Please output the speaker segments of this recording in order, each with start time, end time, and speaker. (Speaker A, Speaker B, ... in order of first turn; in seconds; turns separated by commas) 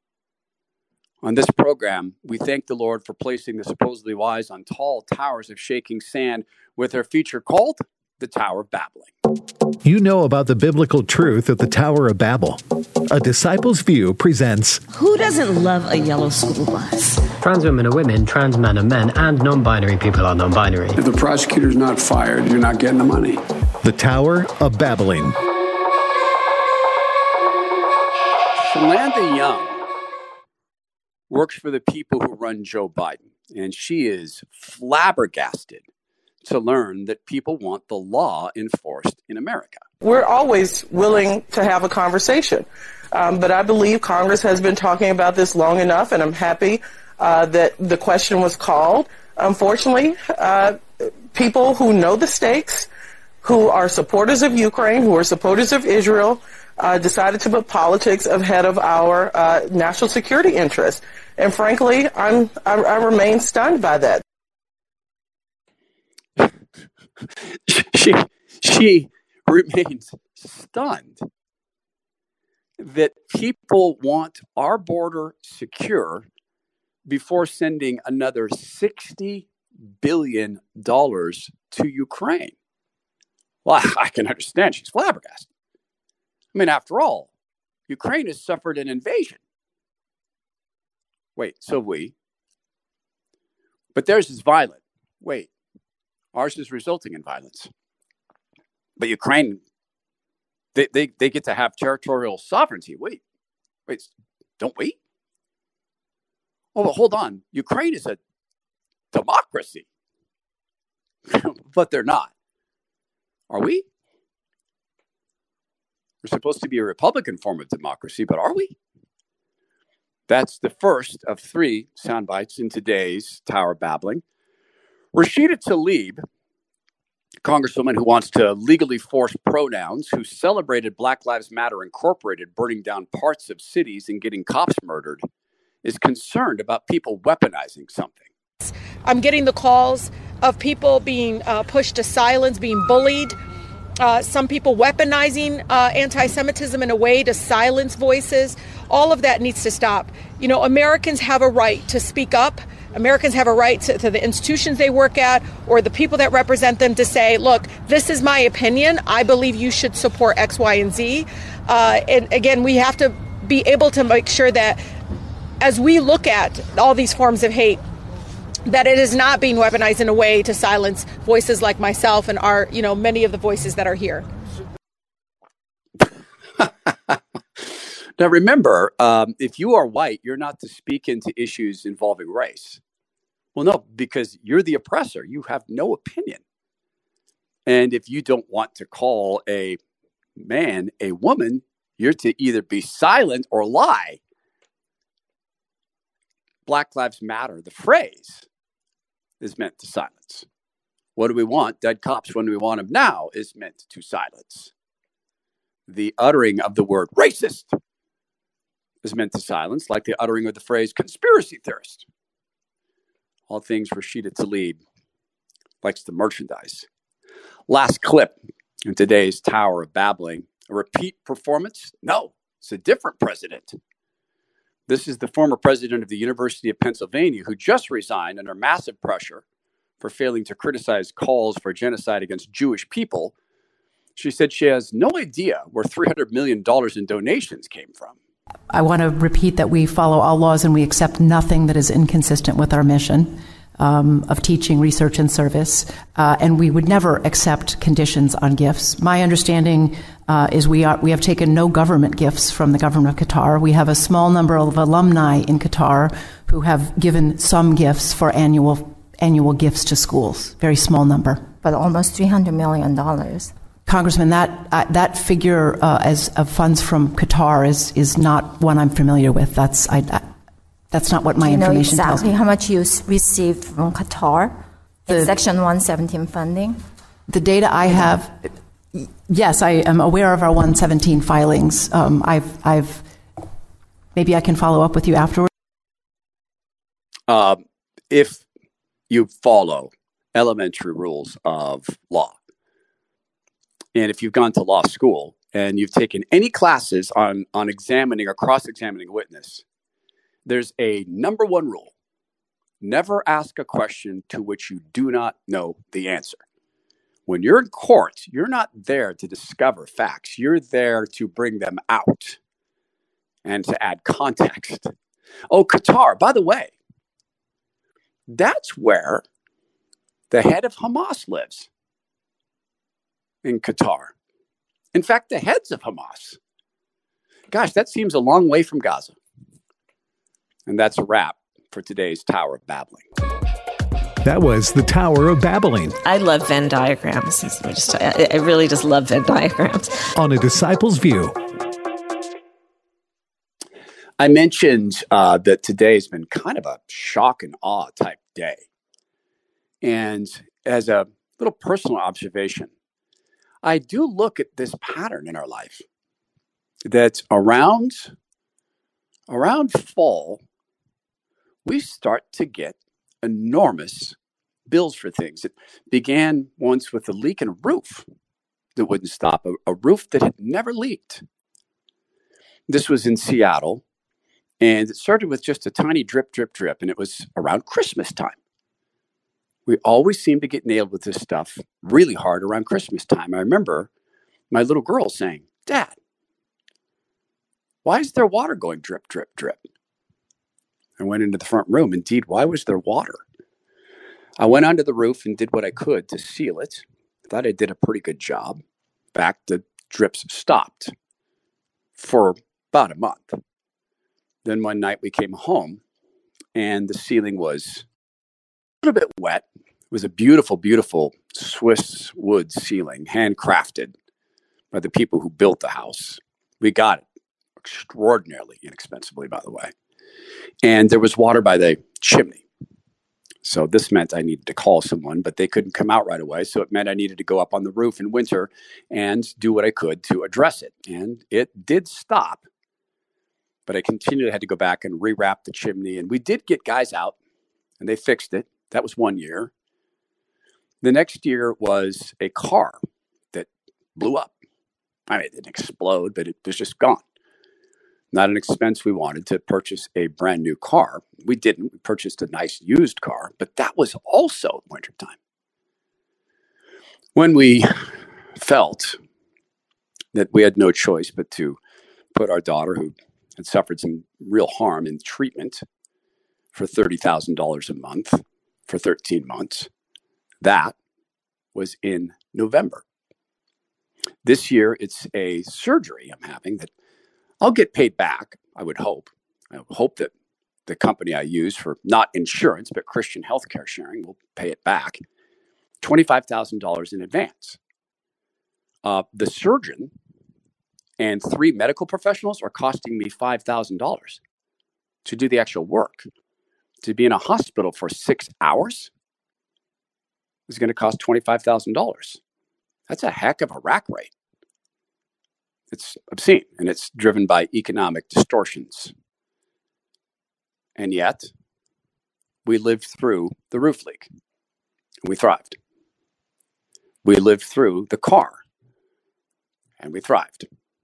Speaker A: 1.2-9.1, Speaker B: 9.8-14.8, Speaker C: 14.9-17.2, Speaker D: 17.4-21.0, Speaker E: 21.0-23.4, Speaker B: 23.8-25.4, Speaker A: 28.6-29.8, Speaker A: 31.3-35.8, Speaker A: 36.4-39.8, Speaker F: 40.0-52.9, Speaker F: 53.4-64.2, Speaker A: 67.7-71.2, Speaker A: 72.8-76.3, Speaker A: 77.1-79.5, Speaker A: 80.0-82.5, Speaker A: 83.6-85.5, Speaker A: 86.5-87.3, Speaker A: 87.9-89.4, Speaker A: 91.4-92.1, Speaker A: 93.9-95.5, Speaker A: 96.3-97.7, Speaker A: 99.0-99.6, Speaker A: 100.7-103.2, Speaker A: 103.9-105.0, Speaker A: 106.7-108.2, Speaker A: 109.1-109.8, Speaker A: 111.3-112.3, Speaker A: 113.5-113.8, Speaker A: 116.2-118.8, Speaker A: 120.3-124.2, Speaker A: 125.1-126.2, Speaker A: 127.4-135.2, Speaker A: 135.8-138.2, Speaker G: 138.6-143.3, Speaker G: 144.0-164.8, Speaker G: 165.6-167.8, Speaker G: 168.7-174.3, Speaker A: 176.6-182.8, Speaker A: 183.6-186.4, Speaker A: 187.7-189.8, Speaker A: 190.4-194.2, Speaker A: 196.7-198.5, Speaker A: 199.4-200.4, Speaker A: 201.2-204.7, Speaker A: 205.9-207.7, Speaker A: 209.0-212.1, Speaker A: 213.5-214.8, Speaker A: 215.8-216.9, Speaker A: 217.7-223.8, Speaker A: 224.9-229.4, Speaker A: 230.0-233.3, Speaker A: 234.2-238.2, Speaker H: 238.7-261.5, Speaker I: 261.6-263.5, Speaker H: 263.9-270.3, Speaker H: 270.9-272.3, Speaker I: 271.4-274.5, Speaker I: 275.1-276.8, Speaker H: 275.1-275.4, Speaker H: 277.3-283.1, Speaker H: 284.1-285.5, Speaker A: 287.3-288.4, Speaker A: 289.1-292.4, Speaker A: 293.9-299.6, Speaker A: 300.4-301.9, Speaker A: 302.8-306.4, Speaker A: 307.3-312.4, Speaker A: 313.4-314.9, Speaker A: 315.5-316.7, Speaker A: 318.3-319.2, Speaker A: 320.3-321.7, Speaker A: 323.4-324.1, Speaker A: 324.9-326.4, Speaker A: 327.5-329.2, Speaker A: 330.7-333.1, Speaker B: 334.2-336.0, Speaker C: 336.0-340.0, Speaker B: 340.2-341.4, Speaker A: 344.2-348.6, Speaker A: 349.8-352.7, Speaker A: 353.6-355.8, Speaker A: 356.9-358.1, Speaker A: 359.3-360.4, Speaker A: 361.6-364.1, Speaker A: 364.7-368.1, Speaker A: 368.8-371.2, Speaker A: 372.7-373.8, Speaker A: 374.6-378.4, Speaker A: 379.6-383.9, Speaker A: 384.5-386.0, Speaker A: 387.8-389.6, Speaker A: 391.0-393.2, Speaker A: 394.4-398.6, Speaker A: 399.1-400.9, Speaker A: 402.0-403.4, Speaker A: 404.4-405.8, Speaker A: 406.5-407.9, Speaker A: 408.8-413.9, Speaker A: 414.7-417.1, Speaker A: 417.6-419.7, Speaker A: 420.6-422.4, Speaker A: 423.4-432.4, Speaker A: 433.6-437.1, Speaker A: 437.8-439.5, Speaker A: 440.8-442.8, Speaker A: 443.3-444.3, Speaker A: 445.1-447.0, Speaker A: 448.1-455.2, Speaker A: 457.1-459.0, Speaker A: 460.1-461.6, Speaker A: 462.1-465.6, Speaker A: 466.5-469.7, Speaker A: 470.4-470.7, Speaker A: 471.5-472.8, Speaker A: 474.2-476.7, Speaker A: 477.4-480.1, Speaker A: 480.7-485.0, Speaker A: 485.8-487.6, Speaker A: 488.8-489.9, Speaker A: 491.0-494.2, Speaker A: 495.0-496.1, Speaker A: 496.8-498.9, Speaker A: 500.5-502.2, Speaker A: 502.9-504.1, Speaker A: 505.7-508.9, Speaker A: 510.8-511.3, Speaker A: 512.4-514.1, Speaker A: 515.0-515.6, Speaker A: 517.0-518.4, Speaker A: 519.8-520.5